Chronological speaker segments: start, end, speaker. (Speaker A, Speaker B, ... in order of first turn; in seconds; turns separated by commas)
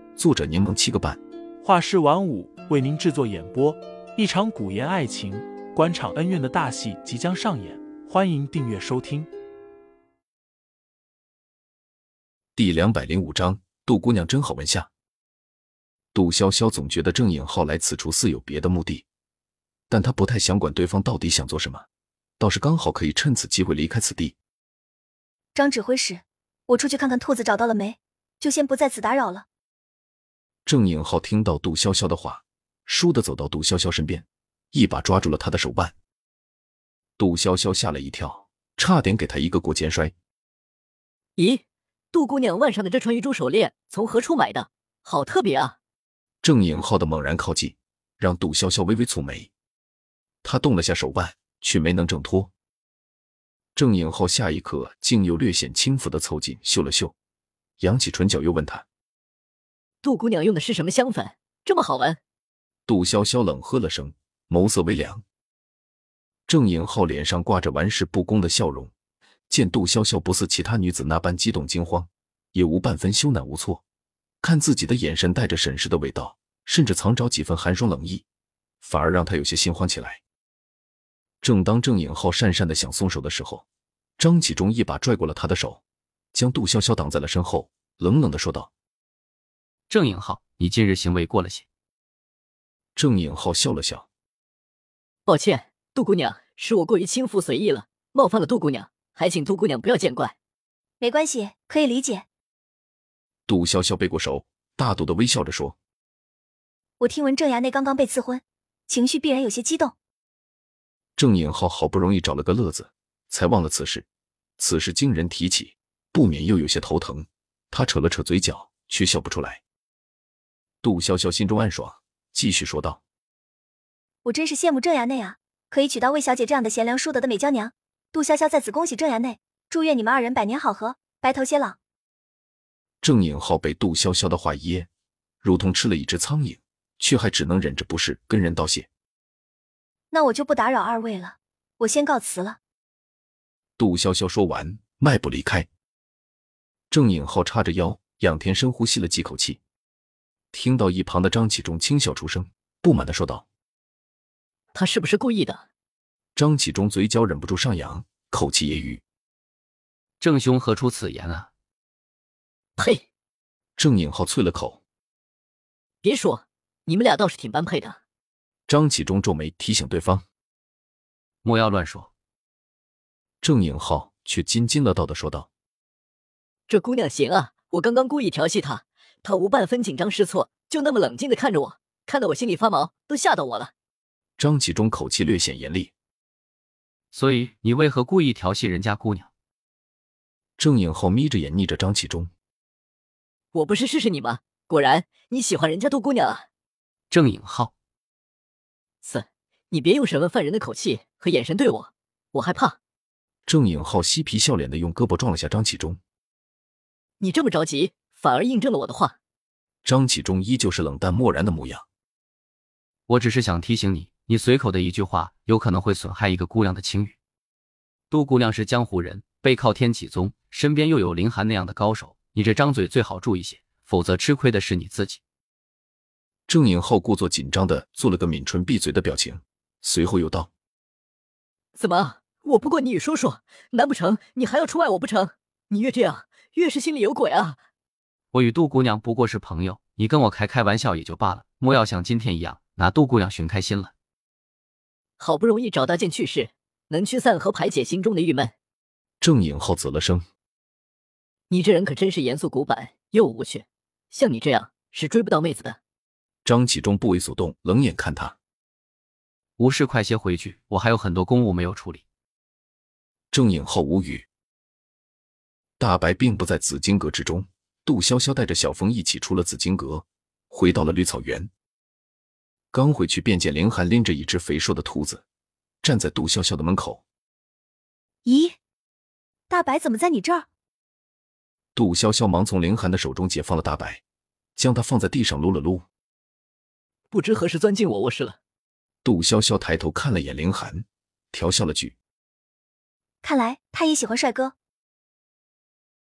Speaker A: 0.2-1.2, Speaker B: 1.6-9.3, Speaker A: 12.6-14.9, Speaker A: 16.1-19.1, Speaker A: 19.9-21.9, Speaker A: 22.4-24.4, Speaker C: 25.6-29.4, Speaker A: 30.7-35.9, Speaker A: 37.2-40.1, Speaker D: 41.4-45.8, Speaker A: 46.4-49.5, Speaker A: 50.4-52.5, Speaker A: 53.8-57.1, Speaker A: 57.8-58.8, Speaker D: 60.0-62.2, Speaker A: 62.9-65.2, Speaker A: 66.5-68.9, Speaker A: 69.5-73.8, Speaker A: 74.4-78.2, Speaker A: 78.8-80.2, Speaker A: 81.4-83.6, Speaker A: 84.2-85.8, Speaker A: 86.3-88.7, Speaker E: 89.9-91.6, Speaker A: 93.0-94.1, Speaker D: 95.2-100.3, Speaker C: 101.0-102.2, Speaker A: 103.5-105.8, Speaker C: 107.0-109.9, Speaker A: 111.2-114.1, Speaker A: 114.6-119.6, Speaker A: 120.8-123.0, Speaker C: 124.2-131.8, Speaker A: 133.0-134.9, Speaker A: 135.4-138.9, Speaker C: 140.1-142.6, Speaker A: 143.8-145.7, Speaker A: 146.9-149.6, Speaker A: 150.5-153.4, Speaker D: 154.7-155.6, Speaker A: 156.3-159.0, Speaker E: 160.2-161.5, Speaker D: 162.8-163.0, Speaker A: 163.8-164.8, Speaker D: 166.0-168.0, Speaker A: 168.7-170.2, Speaker E: 171.4-172.1, Speaker A: 173.4-175.5, Speaker D: 176.7-183.7, Speaker A: 184.4-185.9, Speaker E: 187.1-189.3, Speaker A: 190.6-192.3, Speaker D: 193.5-196.4, Speaker E: 197.1-197.7, Speaker D: 199.0-202.8, Speaker A: 203.4-206.0, Speaker D: 207.2-209.1, Speaker A: 209.8-211.8, Speaker E: 213.1-217.1, Speaker E: 218.1-225.2, Speaker A: 226.5-230.5, Speaker D: 231.8-237.6, Speaker E: 238.3-243.9, Speaker D: 245.2-248.5, Speaker A: 249.2-250.2, Speaker D: 251.5-255.8, Speaker A: 256.4-258.4, Speaker E: 259.6-262.0, Speaker A: 263.3-264.3, Speaker A: 265.8-271.5, Speaker A: 272.7-275.2, Speaker A: 275.8-277.0, Speaker C: 278.2-278.6, Speaker C: 279.5-280.5, Speaker A: 281.8-284.0, Speaker A: 284.6-285.9, Speaker D: 287.1-288.4, Speaker A: 289.0-292.0, Speaker C: 293.2-294.5